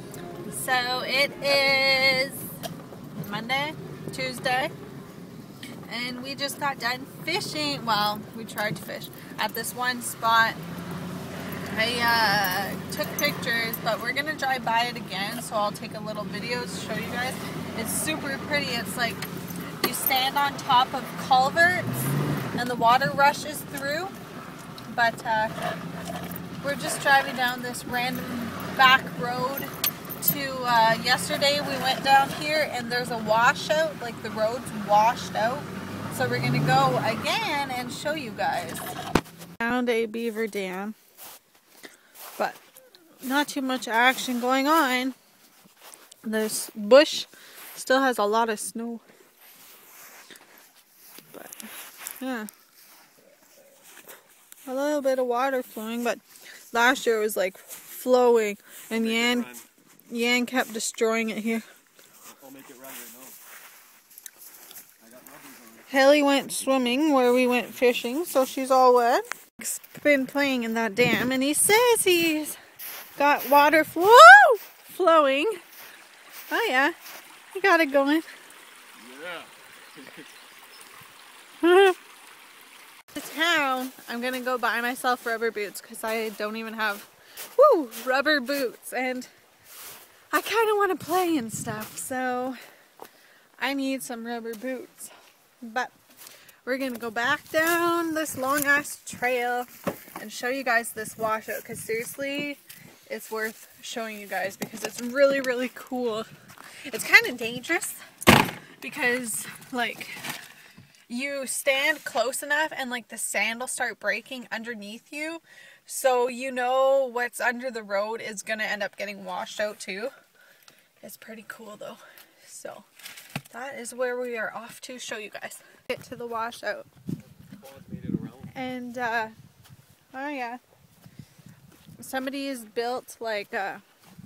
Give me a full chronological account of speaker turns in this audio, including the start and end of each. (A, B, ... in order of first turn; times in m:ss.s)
0:00.4-0:02.5 A
0:03.2-0:04.7 A
0:05.9-0:10.6 A
0:11.7-0:19.2 A
0:19.8-0:22.0 A
0:22.6-0:24.1 A
0:24.9-0:25.6 A
0:26.6-0:38.9 A
0:39.6-0:41.0 A
0:43.2-0:45.2 A
0:46.2-0:49.0 A
0:52.2-0:52.5 A
0:54.7-0:59.5 A
0:58.9-0:59.7 B
1:00.1-1:01.7 A
1:02.4-1:03.4 B
1:05.0-1:05.9 B
1:05.9-1:12.6 A
1:13.2-1:15.6 A
1:16.5-1:17.0 A
1:17.5-1:18.3 A
1:19.0-1:19.5 B
1:21.6-1:22.0 A
1:23.1-1:29.3 A
1:30.3-1:32.6 A
1:33.6-1:35.9 A
1:36.6-1:46.3 A
1:46.9-1:48.0 A
1:48.8-1:50.3 A
1:51.1-2:00.1 A
2:01.0-2:02.9 A
2:03.5-2:06.9 A
2:07.6-2:08.5 B
2:08.5-2:09.4 A
2:10.1-2:10.6 A
2:12.0-2:13.8 A